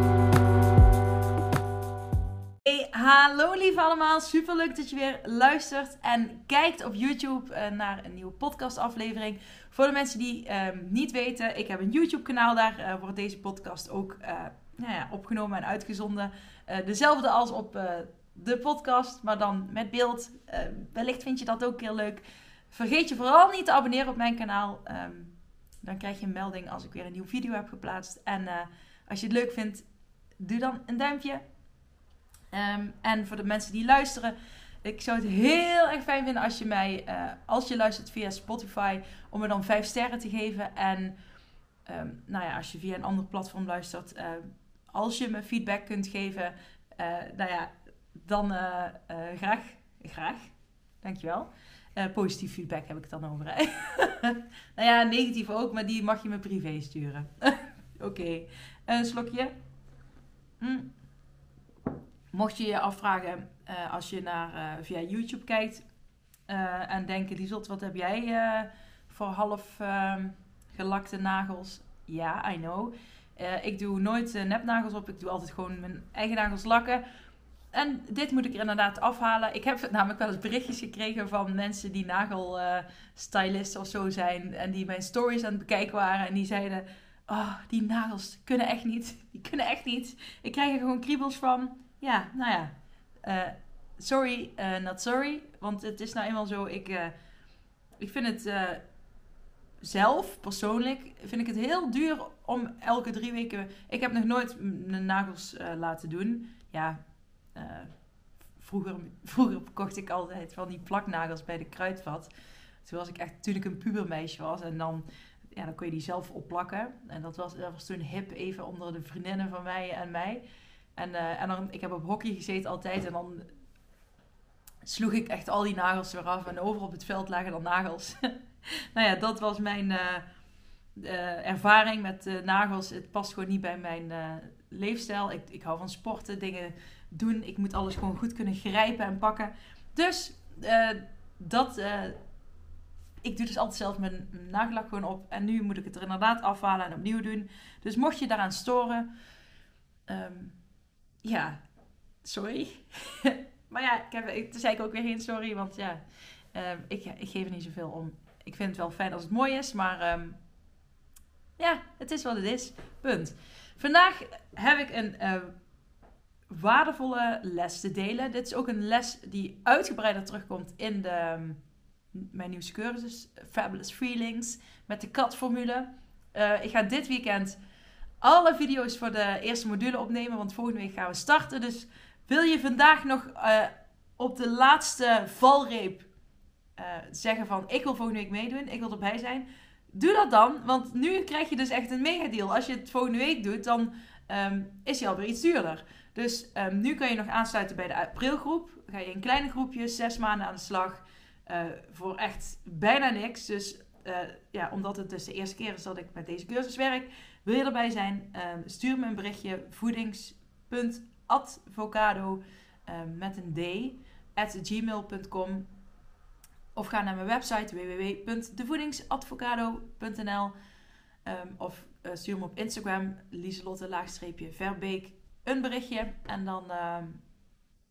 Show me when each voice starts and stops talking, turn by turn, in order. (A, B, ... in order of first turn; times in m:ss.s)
0:02.6-0:29.9 A
0:30.4-0:31.4 A
0:32.5-0:41.2 A
0:41.9-0:59.5 A
1:00.6-1:00.9 A
1:02.3-1:05.8 A
1:06.5-1:17.0 A
1:17.7-1:37.1 A
1:38.0-1:38.8 A
1:39.8-1:47.0 A
1:47.6-1:47.9 A
1:48.6-1:52.3 A
1:52.8-2:00.4 A
2:01.0-2:03.5 A
2:04.8-2:10.2 A
2:11.0-2:22.2 A
2:23.2-2:29.1 A
2:30.1-2:30.6 A
2:31.2-2:31.6 A
2:32.2-2:36.0 A
2:36.5-2:40.4 A
2:41.6-2:45.5 A
2:46.5-2:51.6 A
2:52.1-2:57.6 A
2:58.2-3:06.1 A
3:06.8-3:35.7 A
3:36.8-3:40.5 A
3:41.2-3:47.2 A